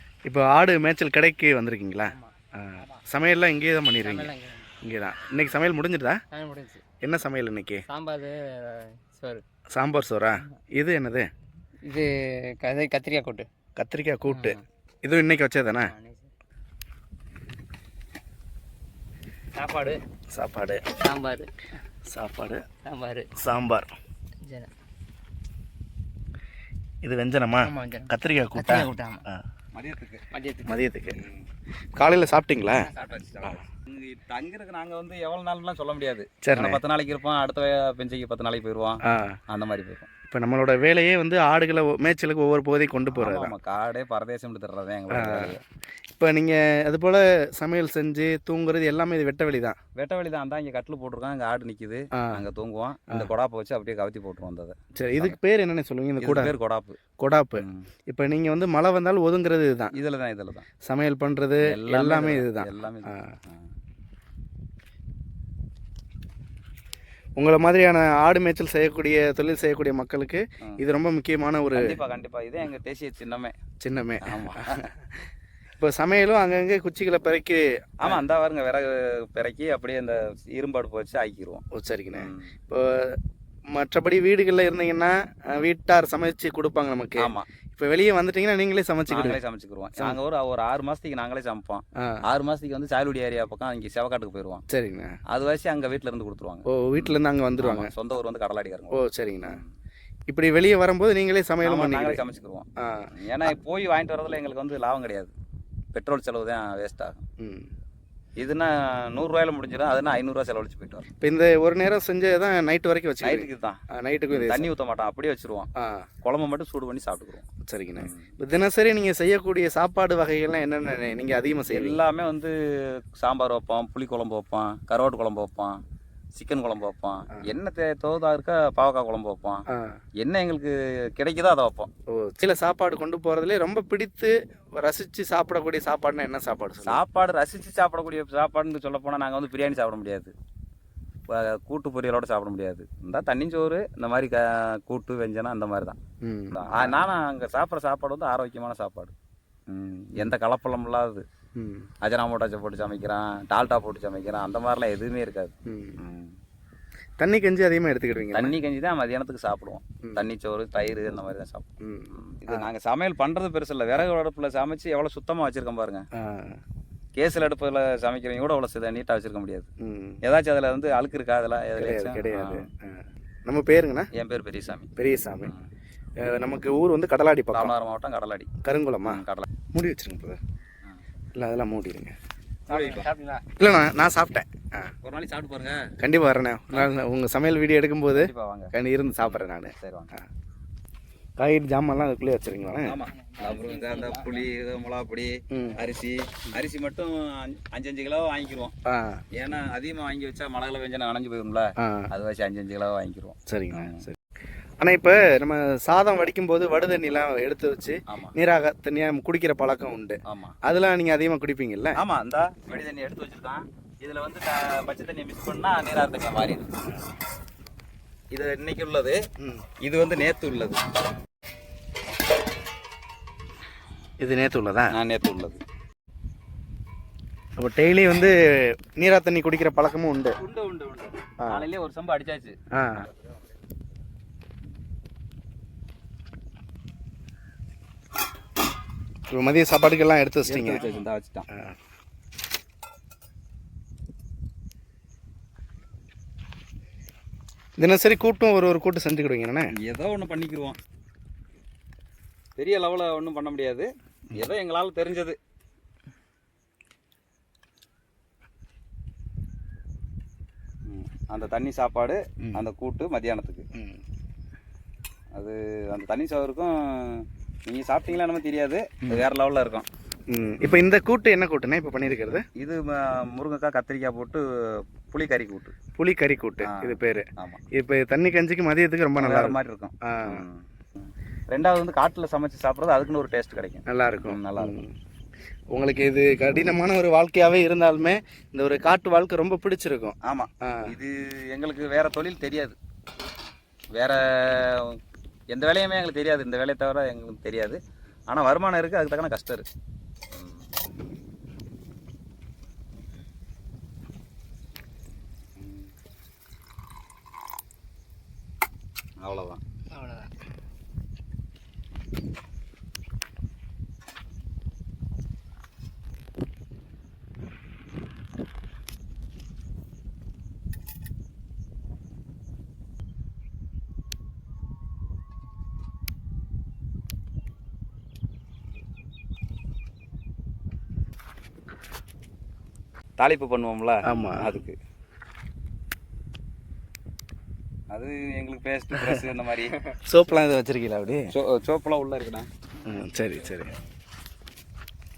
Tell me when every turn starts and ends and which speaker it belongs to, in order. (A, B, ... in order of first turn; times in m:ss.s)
0:00.2-0:06.2 A
0:02.1-0:03.0 B
0:04.0-0:04.7 B
0:06.3-0:06.8 B
0:07.0-0:07.8 A
0:07.9-0:09.4 B
0:09.7-0:11.3 A
0:11.8-0:13.5 B
0:13.8-0:15.9 A
0:14.2-0:14.6 B
0:15.9-0:16.3 B
0:19.6-0:20.0 B
0:20.3-0:20.9 A
0:21.0-0:21.5 B
0:22.1-0:22.6 A
0:22.8-0:23.3 B
0:23.4-0:23.9 A
0:24.4-0:24.7 B
0:27.0-0:29.4 A
0:27.6-0:29.2 B
0:29.7-0:30.2 C
0:30.3-0:30.8 B
0:30.6-0:31.2 A
0:31.1-0:31.4 C
0:32.0-0:32.9 A
0:32.8-0:40.1 C
0:36.4-0:36.8 A
0:39.0-0:39.4 A
0:40.3-0:43.5 A
0:43.1-0:45.6 C
0:45.1-0:45.6 A
0:46.1-0:49.8 A
0:49.9-0:55.4 C
0:52.2-0:52.4 A
0:54.9-0:56.5 A
0:56.2-0:57.0 C
0:57.2-0:59.9 A
0:57.6-0:57.9 C
0:59.9-1:00.6 C
1:00.8-1:03.4 A
1:01.6-1:03.7 C
1:07.4-1:12.0 A
1:11.7-1:13.5 C
1:13.8-1:18.2 A
1:14.2-1:14.8 C
1:18.0-1:21.6 C
1:21.7-1:23.2 A
1:22.1-1:22.5 C
1:23.7-1:29.4 A
1:27.2-1:27.4 C
1:29.1-1:34.6 C
1:34.7-1:35.2 A
1:35.3-1:39.7 C
1:36.7-1:37.9 A
1:38.9-1:39.6 A
1:40.3-1:42.2 A
1:41.6-1:45.3 C
1:42.8-1:43.1 A
1:45.9-1:47.2 C
1:47.4-1:47.7 A
1:48.4-1:51.0 C
1:51.2-1:54.7 A
1:53.2-1:53.8 C
1:54.3-1:55.7 C
1:55.8-1:56.0 A
1:56.2-1:57.4 C
1:57.7-2:02.0 A
1:58.0-1:58.3 C
2:01.7-2:02.5 C
2:03.1-2:05.8 C
2:06.3-2:09.6 C
2:09.7-2:10.0 A
2:10.2-2:11.9 C
2:12.1-2:17.0 A
2:16.8-2:20.3 C
2:21.3-2:26.0 C
2:26.2-2:27.0 A
2:26.5-2:29.1 C
2:29.7-2:31.2 C
2:31.6-2:31.9 A
2:32.0-2:36.4 C
2:35.6-2:36.0 A
2:37.2-2:38.6 A
2:38.3-2:46.0 C
2:40.0-2:40.3 A
2:41.8-2:42.7 A
2:46.1-2:46.6 A
2:47.2-2:49.7 C
2:49.8-2:50.2 A
2:50.2-2:52.7 C
2:51.8-2:54.1 A
2:54.1-2:54.9 C
2:55.0-2:55.5 A
2:56.2-2:57.7 A
2:57.5-2:58.5 C
2:58.6-3:00.4 A
2:59.0-2:59.4 C
3:01.3-3:02.1 A
3:02.7-3:03.1 C
3:02.7-3:03.4 B
3:03.6-3:04.9 A
3:05.0-3:05.9 C
3:06.0-3:10.3 A
3:08.1-3:10.1 C
3:11.4-3:13.0 A
3:12.8-3:18.7 C
3:13.2-3:14.4 B
3:15.5-3:15.8 A
3:18.8-3:19.2 A
3:19.3-3:24.1 C
3:21.8-3:22.1 A
3:23.5-3:24.2 A
3:24.8-3:32.0 A
3:28.1-3:28.3 C
3:30.2-3:30.6 C
3:32.0-3:36.9 C
3:38.3-3:39.2 C
3:39.8-3:40.8 C
3:44.2-3:44.9 A
3:44.9-3:45.6 C
3:47.6-3:50.4 A
3:50.4-3:53.4 C
3:51.4-3:51.7 A
3:52.7-3:53.1 A
3:59.3-4:00.9 A
4:00.5-4:01.4 C
4:07.8-4:09.7 A
4:09.8-4:10.8 C
4:12.6-4:15.4 C
4:20.9-4:23.6 C
4:23.7-4:24.0 A
4:25.3-4:29.8 C
4:30.3-4:32.4 A
4:32.6-4:35.7 C
4:35.9-4:40.4 A
4:36.6-4:37.6 C
4:39.2-4:44.8 C
4:43.9-4:44.9 A
4:45.7-4:50.9 A
4:50.2-4:52.7 C
4:53.9-4:55.0 C
4:55.5-4:57.8 C
4:58.3-4:59.6 C
5:00.3-5:00.6 C
5:05.6-5:05.9 C
5:09.2-5:09.6 C
5:09.9-5:10.3 B
5:33.2-5:34.7 C
5:34.0-5:34.6 A
5:37.9-5:39.8 C
5:40.0-5:41.3 A
5:41.3-5:42.5 C
5:42.8-5:43.7 A